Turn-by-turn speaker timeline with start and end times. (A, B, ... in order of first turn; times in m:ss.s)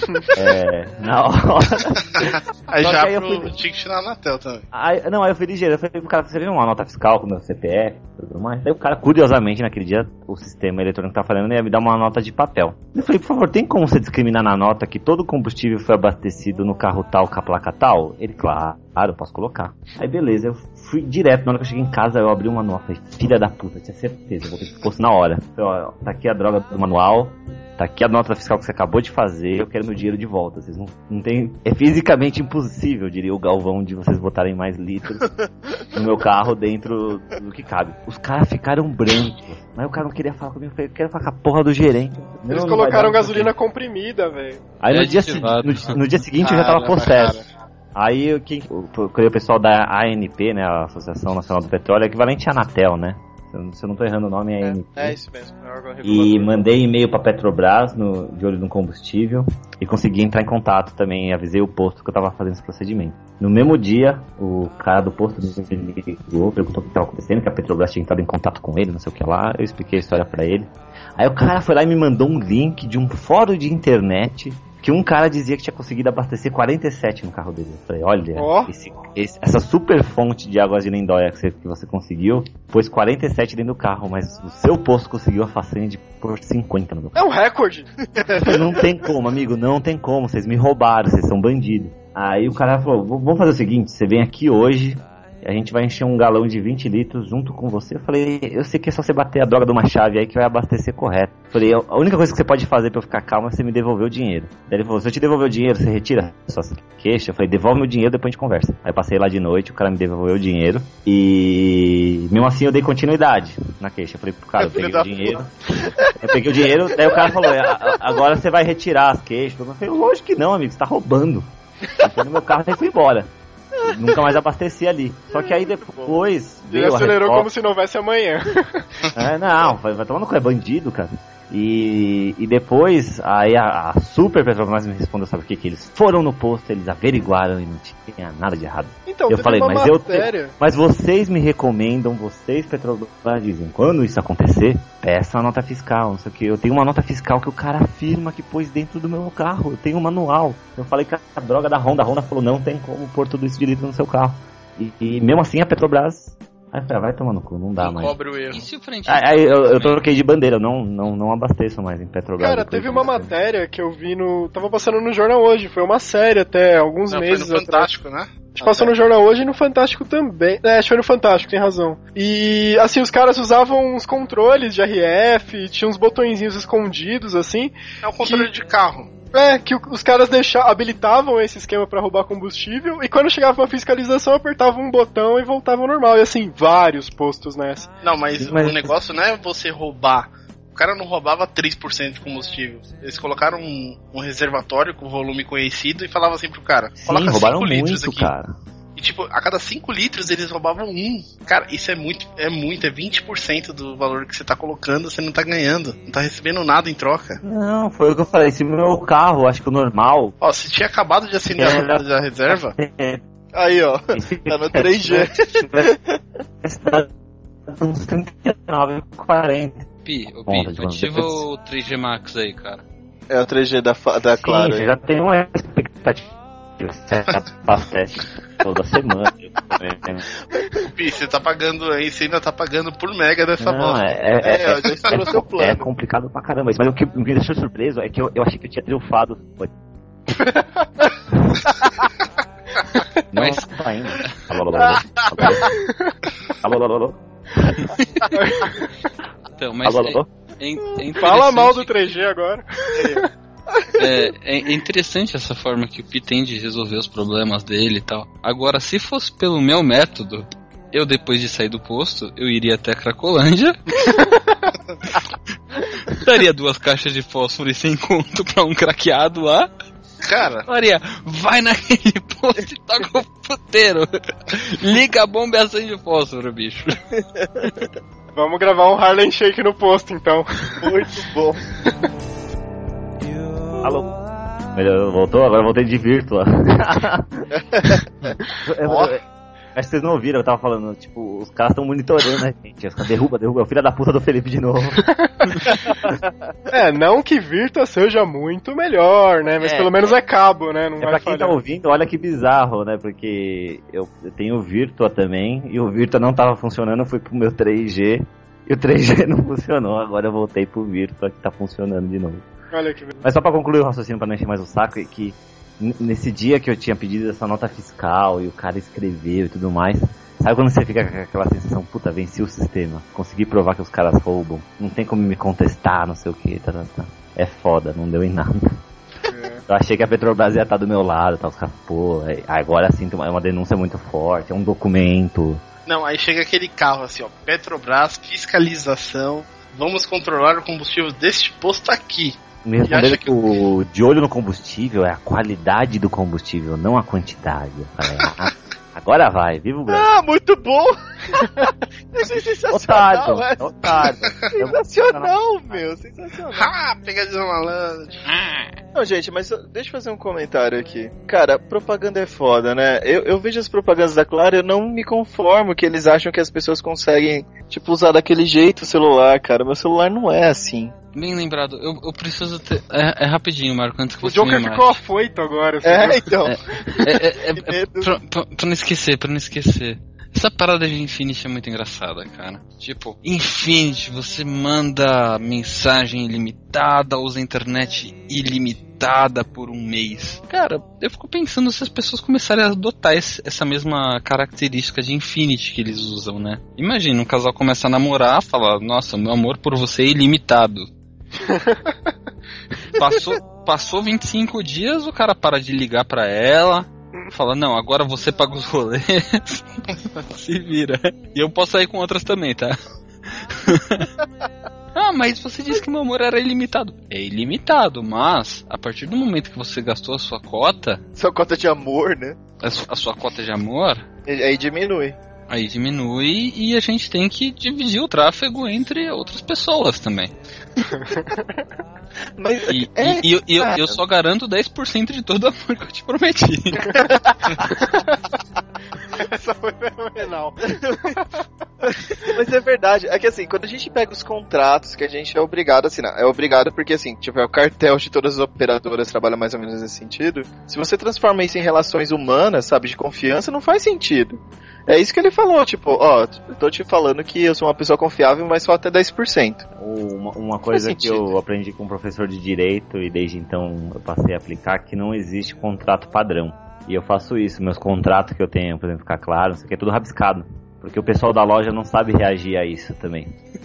0:00.3-0:03.6 A
0:02.2-0:04.6 B
0:04.7-0:35.3 A
0:35.9-0:43.5 A
0:42.5-0:44.6 C
0:44.8-0:47.4 A
0:44.9-0:46.1 D
0:46.5-0:47.4 B
0:47.9-0:55.2 A
0:54.6-0:56.7 E
0:56.0-1:27.2 A
1:18.3-1:18.7 C
1:27.1-1:27.9 C
1:28.1-1:28.9 E
1:28.4-2:03.3 A
1:54.6-1:56.4 E
1:56.9-1:57.5 E
2:03.8-2:07.5 A
2:03.8-2:04.1 E
2:05.3-2:06.2 E
2:06.7-2:08.8 C
2:09.1-2:38.1 A
2:19.1-2:20.5 C
2:37.8-2:38.6 B
2:38.5-2:40.0 D
2:39.1-2:43.3 A
2:42.4-2:47.9 C
2:47.1-2:48.5 B
2:48.6-2:58.5 C
2:58.0-2:59.1 B
2:59.3-3:07.9 C
3:08.0-3:18.3 B
3:08.4-3:08.9 A
3:17.0-3:18.5 A
3:19.0-3:27.4 B
3:27.4-3:30.3 A
3:30.4-3:32.7 B
3:31.6-3:33.2 A
3:33.5-3:36.2 E
3:34.1-3:35.9 A
3:36.6-3:37.1 A
3:37.7-3:39.9 A
3:40.0-3:42.8 D
3:40.5-3:41.4 A
3:43.3-3:44.9 E
3:44.4-3:50.2 A
3:50.9-3:54.1 B
3:53.6-3:59.7 A
3:54.4-3:55.8 E
4:00.3-4:01.1 C
4:03.3-4:05.8 A
4:03.4-4:03.6 D
4:05.4-4:06.2 C
4:06.6-4:07.8 A
4:08.3-4:08.9 C
4:09.5-4:12.2 D
4:09.8-4:10.2 A
4:11.2-4:13.3 C
4:12.9-4:14.0 E
4:14.0-4:24.2 D
4:26.1-4:29.7 D
4:30.2-4:30.7 B
4:30.7-4:36.9 D
4:38.3-4:40.9 C
4:40.8-4:41.6 E
4:43.8-4:44.1 A
4:44.7-4:47.5 A
4:47.8-4:48.0 E
4:48.6-4:49.2 A
4:48.9-4:49.1 E
4:49.8-4:55.1 A
4:56.7-5:01.6 C
4:59.6-5:00.1 A
5:01.0-5:12.4 A
5:12.7-5:13.2 C
5:13.2-5:28.8 A
5:29.2-5:29.6 C
5:29.7-5:35.6 A
5:35.8-5:43.5 B
5:42.6-5:50.1 A
5:49.9-5:54.0 E
5:52.7-5:55.9 A
5:54.6-5:56.7 E
5:56.5-5:58.2 B
5:58.3-5:58.7 D
5:58.9-6:10.9 E
6:11.1-6:15.0 D
6:14.2-6:16.3 C
6:15.8-6:18.2 E
6:16.4-6:40.9 D
6:41.5-6:41.9 C
6:42.9-6:52.8 D
6:53.5-6:54.1 D
6:54.9-7:01.0 D
7:01.2-7:02.4 E
7:02.6-7:04.0 D
7:04.3-7:05.2 E
7:05.5-7:10.3 D
7:10.9-7:11.6 C
7:12.4-7:14.0 E
7:12.7-7:17.0 D
7:16.9-7:17.8 E
7:19.2-7:21.3 C
7:21.8-7:39.6 E
7:39.7-7:53.3 A
7:40.7-7:41.3 E